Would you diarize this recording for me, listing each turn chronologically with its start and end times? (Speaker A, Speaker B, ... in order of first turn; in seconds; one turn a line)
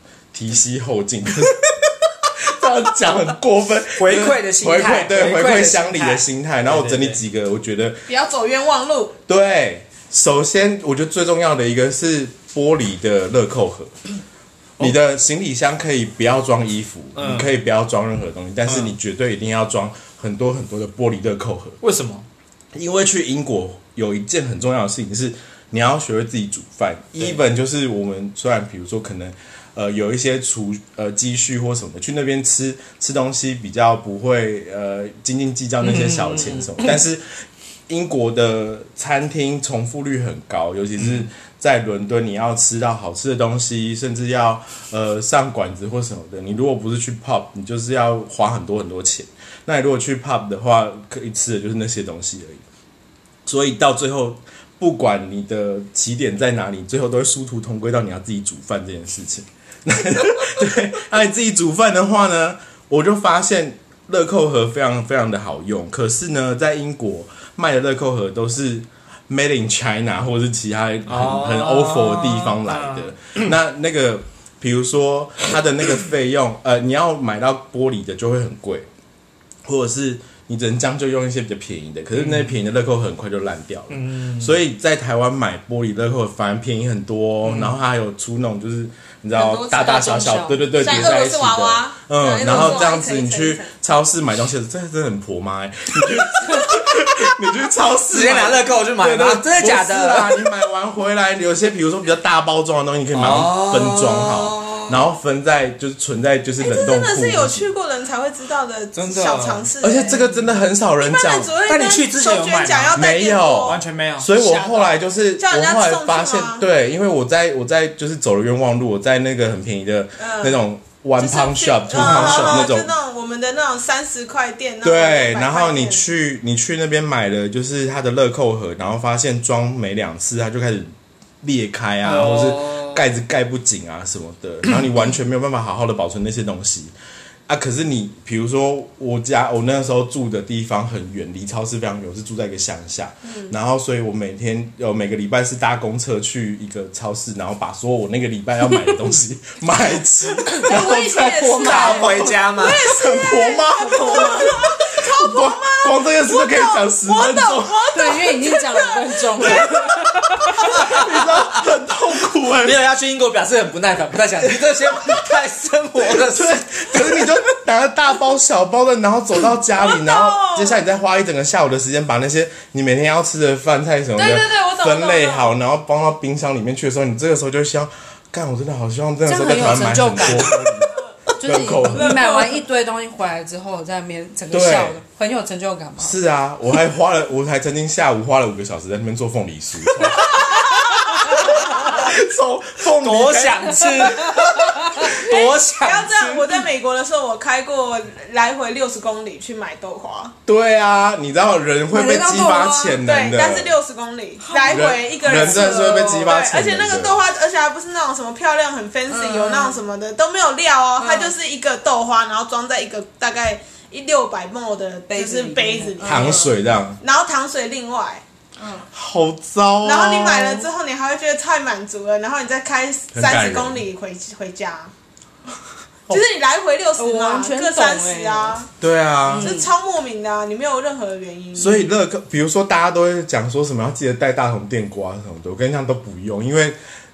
Speaker A: 0.3-8.1
Speaker B: 4.0-7.2
Speaker C: 8.1-9.2
Speaker A: 9.3-14.0
Speaker A: 14.8-21.8
Speaker B: 17.1-17.5
Speaker B: 18.7-19.0
Speaker B: 21.8-22.3
Speaker A: 22.7-52.6
Speaker B: 35.8-37.0
Speaker B: 41.0-41.3
Speaker A: 53.5-78.9
Speaker B: 71.1-73.4
Speaker A: 79.7-107.7
Speaker B: 82.1-82.6
Speaker B: 83.9-84.6
Speaker B: 87.4-87.8
Speaker D: 89.3-91.0
Speaker C: 90.8-93.7
Speaker B: 98.1-100.5
Speaker B: 103.1-105.0
Speaker C: 106.6-110.3
Speaker B: 108.9-109.7
Speaker A: 109.8-111.5
Speaker C: 111.0-113.8
Speaker B: 111.7-114.3
Speaker A: 113.0-122.9
Speaker D: 114.4-115.0
Speaker C: 115.4-116.7
Speaker C: 120.2-120.6
Speaker C: 121.2-126.0
Speaker B: 121.9-122.7
Speaker A: 124.8-136.9
Speaker B: 132.0-133.0
Speaker A: 137.5-158.1
Speaker C: 143.3-143.5
Speaker D: 150.4-152.4
Speaker B: 151.4-152.9
Speaker C: 152.6-159.5
Speaker D: 153.8-154.6
Speaker D: 157.9-160.7
Speaker B: 160.7-161.2
Speaker A: 160.7-162.8
Speaker B: 162.6-167.0
Speaker A: 166.3-182.2
Speaker C: 169.8-170.8
Speaker C: 174.2-175.5
Speaker D: 179.3-180.7
Speaker B: 180.2-180.5
Speaker D: 181.3-186.1
Speaker C: 182.0-182.5
Speaker A: 184.5-185.0
Speaker A: 186.0-193.8
Speaker C: 190.3-190.7
Speaker D: 191.4-191.7
Speaker B: 192.9-194.2
Speaker D: 194.4-195.2
Speaker B: 195.1-196.4
Speaker C: 195.3-200.3
Speaker A: 200.5-203.7
Speaker D: 201.9-203.0
Speaker C: 203.0-216.5
Speaker D: 204.4-205.8
Speaker A: 204.7-207.2
Speaker D: 209.1-209.8
Speaker D: 211.0-211.3
Speaker D: 215.1-216.5
Speaker A: 216.0-217.0
Speaker C: 217.0-218.2
Speaker D: 218.6-218.9
Speaker A: 218.9-220.6
Speaker C: 219.8-224.9
Speaker A: 223.1-223.8
Speaker C: 226.1-228.7
Speaker D: 227.0-228.6
Speaker A: 228.8-229.6
Speaker D: 229.2-229.7
Speaker C: 229.4-231.8
Speaker A: 231.6-236.8